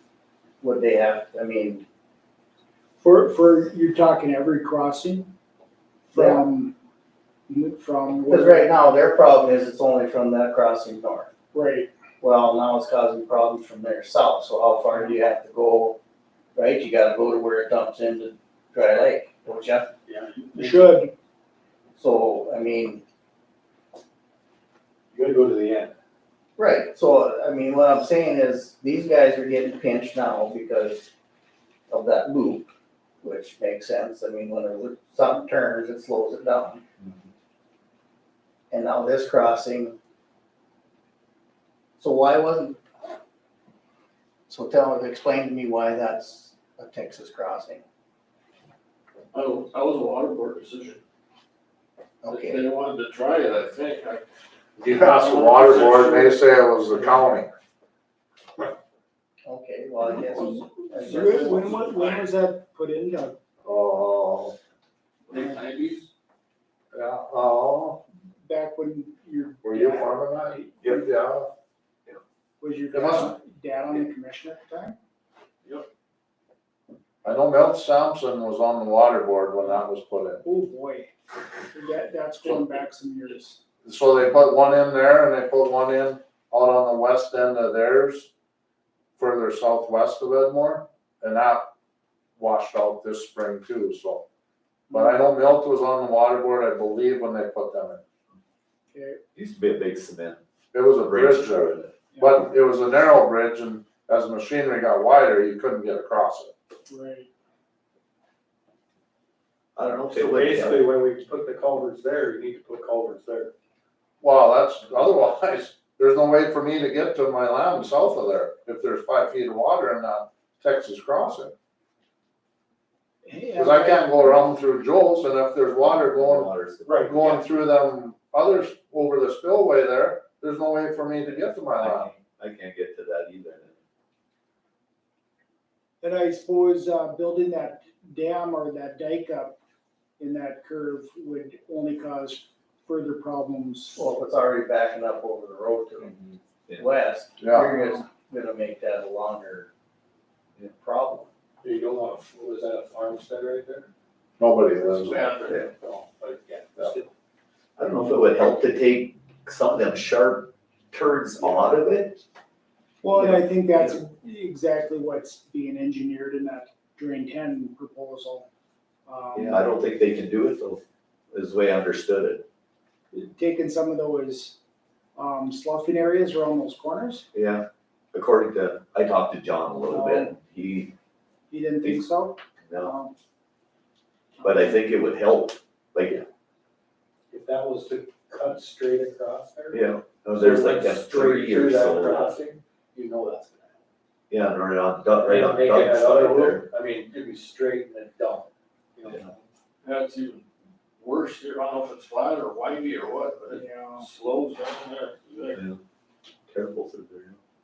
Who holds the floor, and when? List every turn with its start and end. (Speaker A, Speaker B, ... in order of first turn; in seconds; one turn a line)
Speaker A: 0.6-1.8
Speaker B: 3.0-5.3
Speaker B: 6.1-6.7
Speaker A: 6.1-6.4
Speaker B: 7.5-8.8
Speaker A: 8.2-11.3
Speaker B: 11.5-11.9
Speaker A: 12.2-16.0
Speaker A: 16.5-19.9
Speaker C: 20.1-20.7
Speaker B: 20.5-21.1
Speaker A: 22.0-23.0
Speaker C: 25.1-25.9
Speaker A: 26.6-31.1
Speaker A: 31.9-32.7
Speaker A: 33.2-36.8
Speaker A: 38.7-40.0
Speaker A: 42.0-42.8
Speaker A: 44.5-47.8
Speaker D: 49.3-51.0
Speaker A: 52.2-52.6
Speaker D: 52.2-54.2
Speaker E: 54.8-57.5
Speaker D: 54.8-56.4
Speaker A: 59.5-61.7
Speaker D: 60.3-62.3
Speaker B: 60.4-63.4
Speaker E: 63.6-64.5
Speaker D: 65.3-66.1
Speaker E: 66.9-68.0
Speaker B: 68.2-71.0
Speaker E: 69.6-71.5
Speaker B: 72.6-75.0
Speaker E: 72.9-73.3
Speaker E: 77.2-80.4
Speaker B: 80.4-81.1
Speaker B: 81.7-83.6
Speaker E: 82.4-82.8
Speaker E: 83.8-88.3
Speaker E: 89.2-91.7
Speaker E: 92.4-94.2
Speaker B: 94.9-95.2
Speaker E: 94.9-98.0
Speaker B: 98.9-99.2
Speaker F: 99.3-100.4
Speaker E: 100.7-106.5
Speaker F: 101.0-101.9
Speaker B: 102.1-102.4
Speaker B: 106.9-107.3
Speaker F: 109.8-110.9
Speaker C: 110.1-113.5
Speaker E: 114.2-121.5
Speaker B: 123.2-124.5
Speaker E: 123.5-126.5
Speaker F: 125.8-127.5
Speaker C: 126.9-127.2
Speaker E: 127.0-132.1
Speaker F: 131.8-133.8
Speaker B: 136.0-139.6
Speaker B: 140.2-144.0
Speaker A: 143.9-146.2
Speaker A: 146.8-149.7
Speaker E: 147.4-147.7
Speaker A: 150.6-151.3
Speaker C: 151.6-153.9
Speaker E: 154.4-155.2
Speaker D: 155.0-155.6
Speaker C: 155.3-157.1
Speaker F: 157.8-162.2
Speaker B: 163.0-168.5
Speaker B: 169.1-169.7
Speaker F: 169.3-170.8
Speaker F: 171.3-172.4
Speaker B: 173.1-174.6
Speaker B: 175.2-177.3
Speaker F: 177.3-180.9
Speaker B: 179.9-180.3
Speaker B: 181.5-183.1
Speaker F: 182.7-182.9
Speaker B: 184.4-184.8
Speaker F: 184.4-186.2
Speaker C: 187.3-189.8
Speaker F: 189.7-192.4
Speaker C: 190.3-193.8
Speaker F: 194.3-196.7
Speaker C: 195.2-199.4
Speaker D: 199.8-200.4
Speaker D: 201.0-205.6
Speaker B: 203.5-204.1
Speaker F: 205.5-205.8
Speaker F: 206.5-207.4